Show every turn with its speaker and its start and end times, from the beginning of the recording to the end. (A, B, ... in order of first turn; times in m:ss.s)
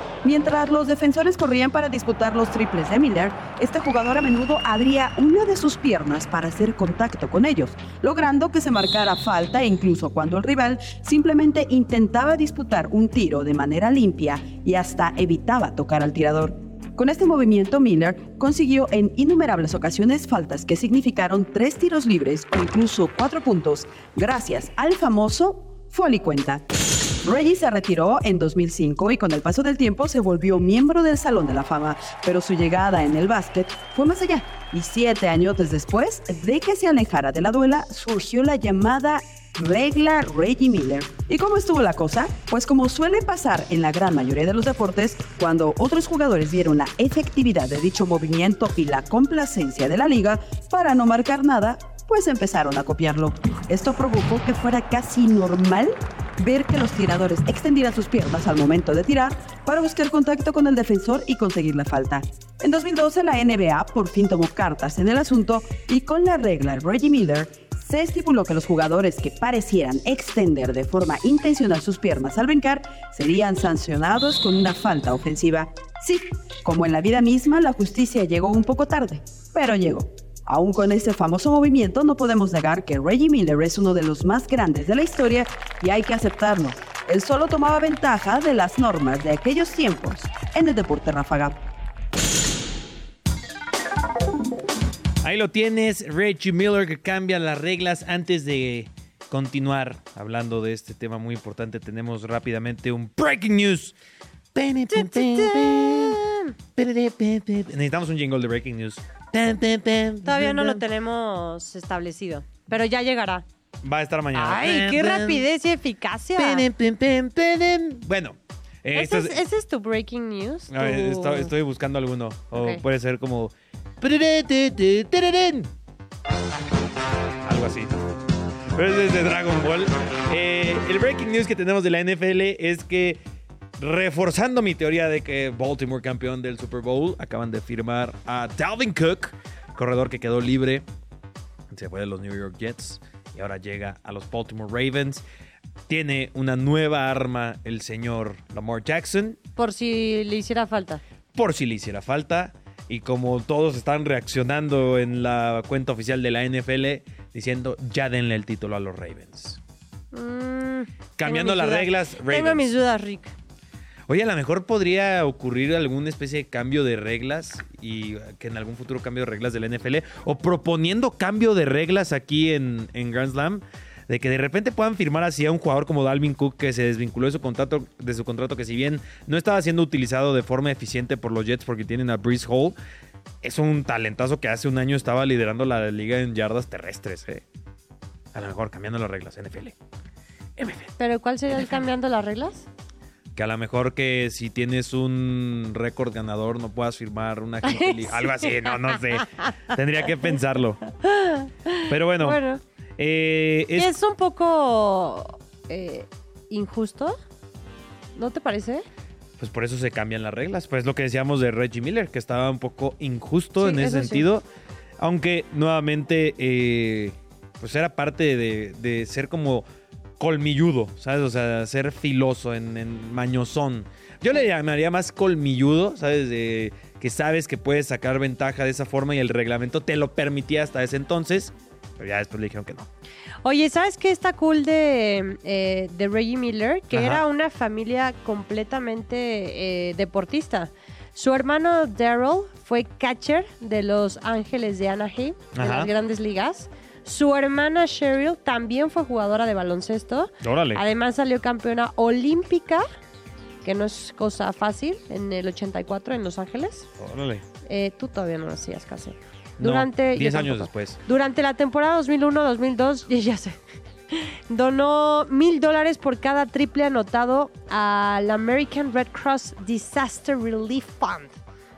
0:00.2-0:26.6 A
0:27.2-1:31.6 A
1:35.2-1:44.0 B
1:44.6-1:46.2 B
1:44.9-1:46.5 C
1:46.8-1:50.8 B
1:50.2-1:53.4 C
1:53.8-1:55.4 B
1:54.3-1:56.7 C
1:56.4-1:59.4 B
1:58.9-2:01.5 C
2:00.7-2:05.7 B
2:02.5-2:02.8 C
2:07.4-2:08.1 B
2:08.7-2:13.2 B
2:13.8-2:20.8 B
2:21.7-2:25.2 B
2:25.9-2:29.4 B
2:29.6-2:31.0 C
2:31.4-2:39.6 B
2:40.1-2:43.3 C
2:41.2-2:42.7 B
2:44.1-3:02.8 B
3:03.4-3:07.4 B
3:08.3-3:09.8 B
3:10.6-3:10.9 B
3:11.0-3:12.7 C
3:13.4-3:20.8 B
3:17.6-3:19.0 C
3:21.0-3:22.6 C
3:21.9-3:22.4 B
3:23.0-3:23.9 B
3:23.8-3:27.2 C
3:28.2-3:28.9 C
3:29.4-3:34.4 B
3:33.6-3:34.3 C
3:35.0-3:39.6 B
3:40.2-3:52.9 B
3:53.4-4:12.8 C
3:56.9-3:57.2 B
4:05.6-4:05.9 B
4:10.4-4:10.8 B
4:13.6-4:16.9 C
4:17.0-4:17.4 B
4:17.7-4:23.6 C
4:19.6-4:21.0 B
4:24.1-4:31.4 C